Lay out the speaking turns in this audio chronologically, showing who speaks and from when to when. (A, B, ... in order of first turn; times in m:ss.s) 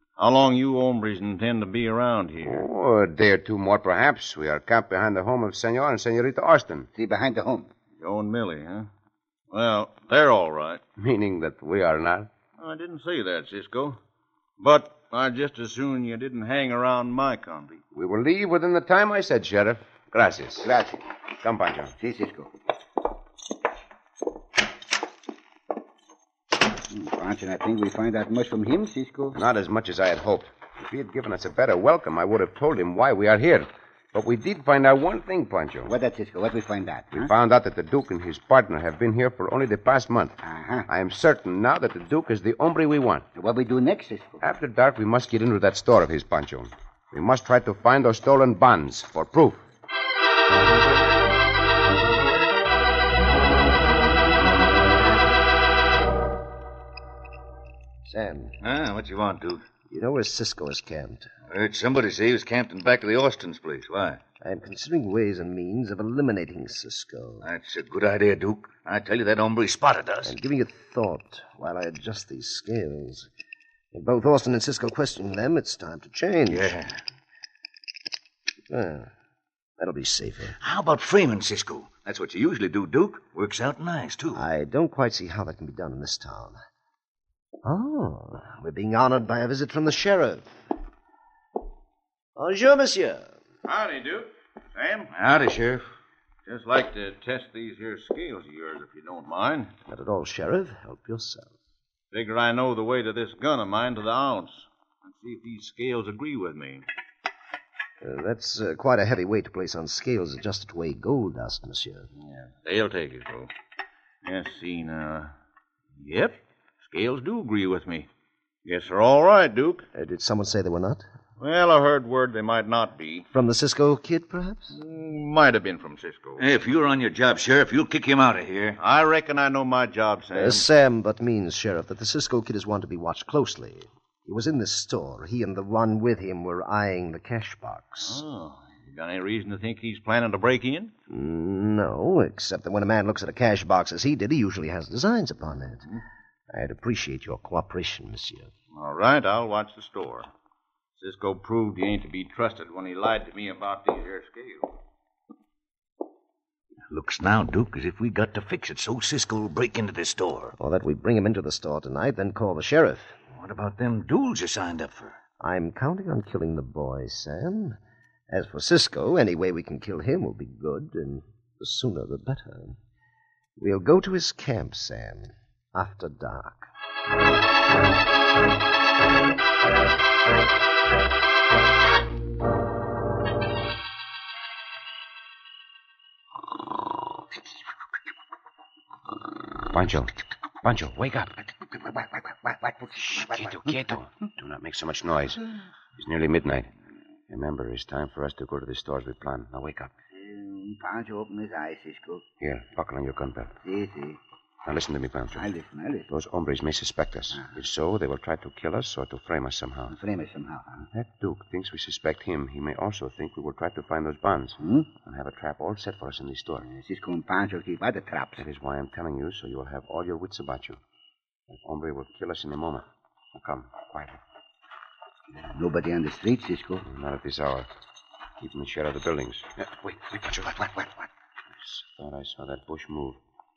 0:00.2-0:02.7 A
0:02.4-0:06.9 B
0:06.9-0:07.7 C
0:08.0-0:08.9 A
0:09.5-0:10.8 A
0:11.0-0:12.3 B
0:12.6-0:14.0 A
0:14.6-0:17.8 A
0:17.9-0:20.7 B
0:20.6-0:21.0 C
0:21.4-0:21.9 B
0:22.0-0:22.5 C
0:26.9-0:29.4 C
0:29.3-0:35.9 B
0:35.9-0:37.3 C
0:37.1-0:40.4 B
0:40.4-0:40.9 C
0:40.9-0:43.2 B
0:43.3-0:44.4 C
0:44.4-0:49.6 B
0:58.0-0:58.6 D
0:58.6-0:59.6 E
0:59.9-1:01.3 D
1:01.5-1:04.2 E
1:04.4-1:07.5 D
1:07.4-1:10.3 E
1:10.2-1:13.3 D
1:13.9-1:16.7 D
1:16.5-1:17.0 E
1:18.7-1:19.1 D
1:19.8-1:20.6 D
1:20.6-1:24.4 E
1:24.3-1:26.6 D
1:27.6-1:30.5 D
1:32.4-1:33.3 D
1:33.6-1:35.1 A
1:35.1-1:35.8 E
1:36.4-1:39.7 A
1:39.9-1:41.5 D
1:42.1-1:46.8 A
1:48.0-1:52.1 D
1:52.2-1:53.5 A
1:54.2-1:55.3 A
1:56.0-1:58.1 A
1:58.6-1:59.8 A
1:59.9-2:01.0 D
2:01.4-2:03.2 A
2:03.3-2:04.7 D
2:04.7-2:06.4 A
2:06.4-2:08.8 E
2:08.8-2:10.6 A
2:10.3-2:18.2 D
2:18.0-2:20.9 A
2:21.1-2:25.9 D
2:26.5-2:28.5 D
2:28.7-2:30.3 A
2:31.0-2:34.7 A
2:36.9-2:40.6 E
2:40.6-2:43.2 D
2:43.3-2:45.2 E
2:45.4-2:47.8 D
2:48.3-2:52.8 D
2:53.6-2:56.7 D
3:09.7-3:11.4 B
3:12.0-3:13.4 C
3:13.0-3:16.7 B
3:17.3-3:19.9 B
3:20.1-3:22.2 C
3:22.4-3:23.6 B
3:23.6-3:24.2 C
3:24.6-3:25.4 B
3:25.4-3:26.1 C
3:26.1-3:30.0 B
3:29.9-3:30.8 C
3:30.9-3:36.7 B
3:34.6-3:34.9 C
3:36.7-3:38.4 C
3:38.4-3:40.8 B
3:41.5-3:44.2 B
3:45.4-3:46.8 C
3:46.8-3:47.7 B
3:48.4-3:50.6 B
3:51.6-3:53.2 B